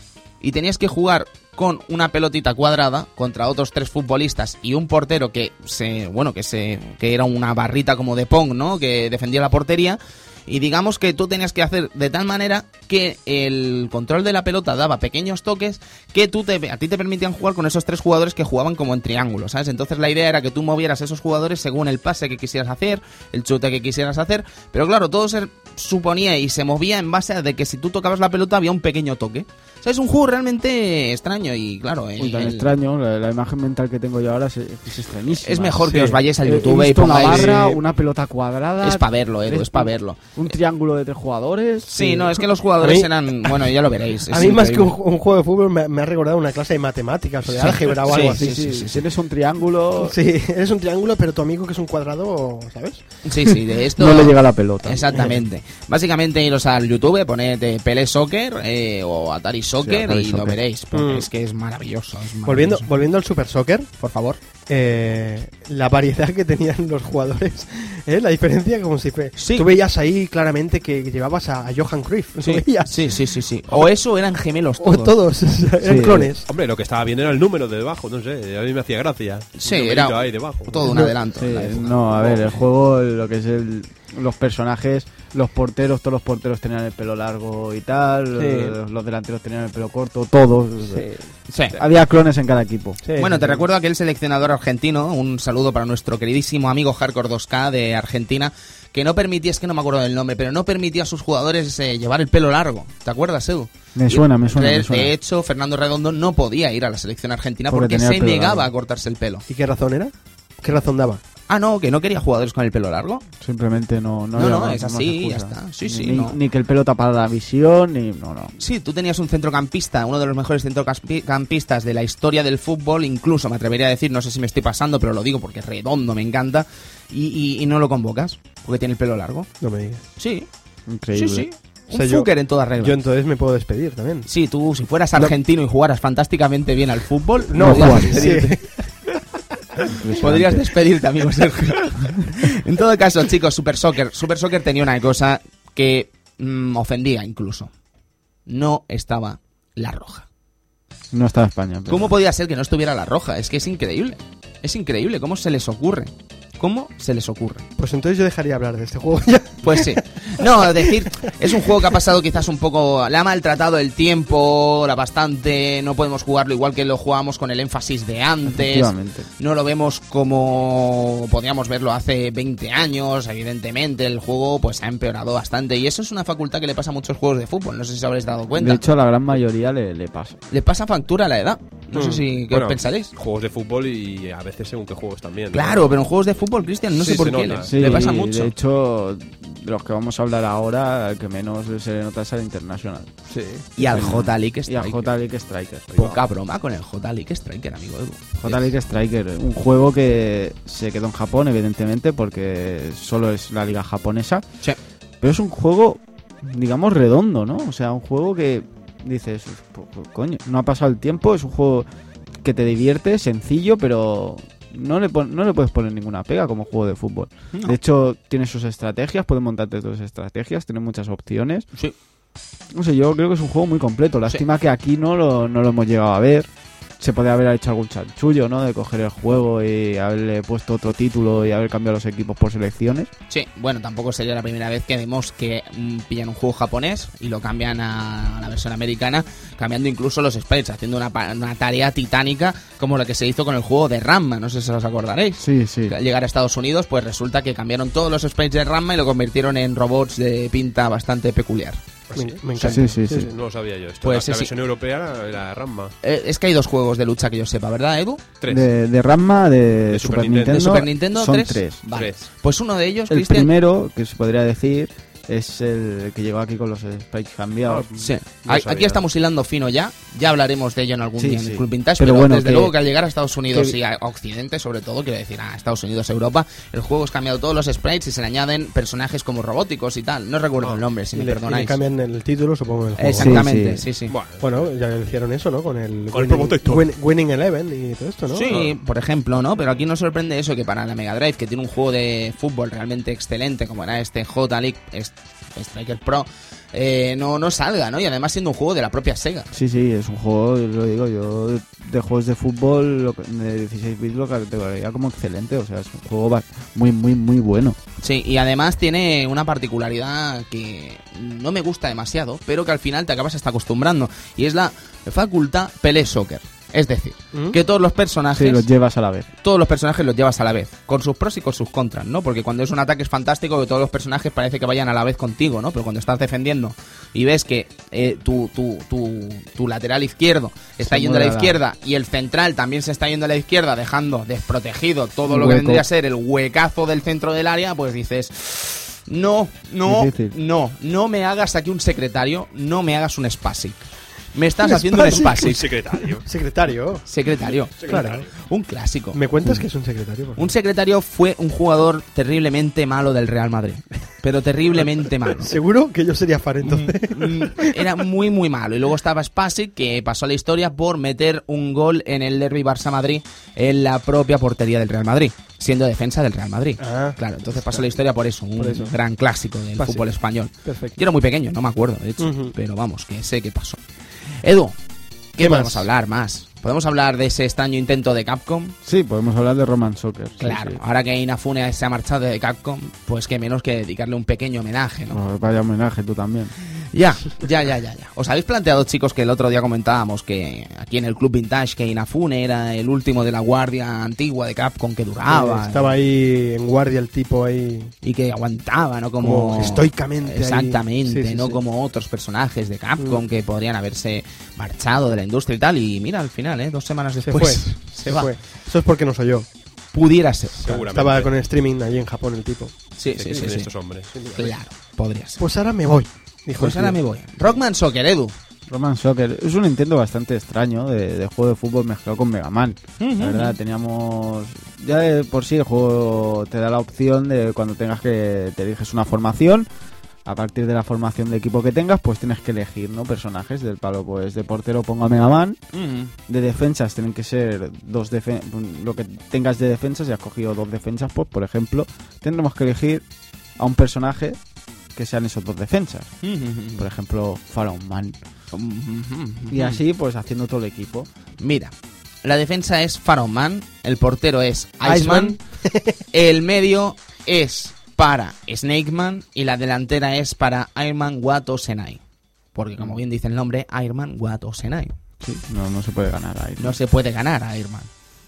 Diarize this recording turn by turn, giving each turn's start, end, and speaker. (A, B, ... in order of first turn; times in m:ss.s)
0:00.4-0:32.7 A
0:32.2-0:42.4 B
0:35.3-0:37.8 A
0:35.9-0:36.2 C
0:37.2-0:37.7 C
0:38.8-0:40.2 A
0:41.9-0:44.9 A
0:42.8-0:43.7 C
0:44.3-0:48.6 C
0:47.5-0:49.0 A
0:48.1-0:50.2 B
0:50.0-0:53.0 C
0:53.2-1:02.9 A
0:54.0-0:55.3 B
0:59.8-1:00.6 B
1:00.9-1:01.3 C
1:02.5-1:03.9 C
1:04.0-1:04.4 A
1:04.7-1:13.2 C
1:09.4-1:09.7 A
1:12.4-1:15.2 A
1:14.8-1:16.5 C
1:15.8-1:16.3 B
1:16.5-1:20.9 D
1:19.6-1:22.6 A
1:20.8-1:21.1 C
1:21.3-1:31.1 B
1:28.4-1:28.8 C
1:30.8-1:31.3 C
1:31.5-1:31.8 A
1:31.7-1:33.0 B
1:33.0-1:33.6 C
1:33.2-1:49.4 A
1:44.0-1:45.1 B
1:47.7-1:48.7 B
1:49.5-1:51.2 C
1:51.5-1:53.2 A
1:53.4-1:58.6 B
1:54.4-1:56.4 A
1:58.6-2:09.5 A
2:09.6-2:10.0 C
2:10.2-2:10.5 A
2:10.9-2:11.5 B
2:11.1-2:13.0 A
2:11.9-2:14.3 C
2:14.3-2:18.6 A
2:17.5-2:18.9 C
2:17.6-2:18.3 B
2:19.9-2:20.7 B
2:20.1-2:27.7 A
2:28.5-2:30.3 A
2:31.1-2:32.2 B
2:31.9-2:37.6 A
2:37.8-2:40.9 C
2:39.6-2:58.8 A
2:48.5-2:49.3 B
2:58.6-3:00.4 B
3:00.5-3:03.1 A
3:01.9-3:02.2 C
3:02.5-3:06.1 D
3:05.5-3:08.5 A
3:06.9-3:08.2 D
3:07.6-3:13.1 B
3:13.3-3:13.7 C
3:13.8-3:15.1 A
3:13.8-3:16.2 B
3:16.0-3:18.7 A
3:18.4-3:24.4 B
3:25.2-3:31.9 B
3:32.4-3:41.7 B
3:37.5-3:37.8 A
3:42.7-3:46.5 B
3:47.0-3:53.1 B
3:53.3-4:11.8 A
4:05.4-4:05.9 B
4:12.1-4:12.4 D
4:12.2-4:13.3 C
4:12.6-4:12.9 A
4:12.7-4:13.3 B
4:13.1-4:15.9 D
4:14.0-4:14.5 A
4:16.0-4:18.2 A
4:18.4-4:18.7 D
4:18.5-4:21.8 B
4:19.9-4:20.9 D
4:20.5-4:23.5 A
4:21.9-4:22.2 D
4:23.1-4:27.9 B
4:27.7-4:29.0 D
4:28.0-4:41.8 A
4:31.2-4:32.8 B
4:41.1-4:43.5 C
4:43.0-4:44.1 A
4:43.2-4:43.8 B
4:44.1-4:44.7 D
4:44.4-4:48.5 C
4:46.1-4:46.9 D
4:48.3-4:59.5 A
4:59.5-5:07.8 B
5:08.0-5:18.7 A
5:18.4-5:19.3 B
5:19.4-5:43.8 A
5:30.8-5:31.6 B
5:35.3-5:35.9 B
5:39.8-5:40.4 B
5:44.3-5:45.7 A
5:44.6-5:45.4 C
5:45.2-5:46.3 D
5:46.2-5:47.0 C
5:47.1-5:49.2 A
5:47.8-5:48.3 D
5:47.9-5:48.3 C
5:49.1-5:50.5 C
5:50.4-5:55.6 A
5:55.4-5:57.9 C
5:56.6-6:13.8 A
6:06.8-6:08.0 C
6:08.6-6:08.9 C
6:09.8-6:10.1 C
6:10.6-6:11.0 C
6:12.2-6:12.5 C
6:14.4-6:14.8 A
6:15.4-6:18.8 A
6:15.4-6:15.9 C
6:18.8-6:20.8 B
6:20.4-6:25.2 A
6:25.1-6:26.5 B
6:26.9-6:36.0 A
6:35.3-6:37.9 C
6:38.0-6:48.3 A
6:39.2-6:41.6 C
6:47.2-6:49.5 C
6:49.9-6:50.6 A
6:50.6-6:52.8 C
6:50.6-6:51.3 D
6:53.0-6:53.7 A
6:53.2-6:54.3 D
6:54.2-6:54.5 C
6:54.2-6:55.4 A
6:55.4-6:57.0 C
6:56.6-6:58.4 A
6:58.7-7:09.7 B
7:03.0-7:03.6 A
7:10.2-7:15.6 B
7:15.7-7:16.1 A
7:16.3-7:23.0 B
7:23.6-7:24.4 B
7:25.0-7:26.1 B
7:26.2-7:26.9 A
7:26.8-7:28.2 B
7:28.5-7:29.8 A
7:29.5-7:31.1 B
7:31.4-7:31.7 A
7:32.2-7:35.4 A
7:34.8-7:36.0 C
7:36.1-7:42.0 A
7:42.5-7:45.0 A
7:45.2-7:46.8 B
7:46.6-7:47.9 A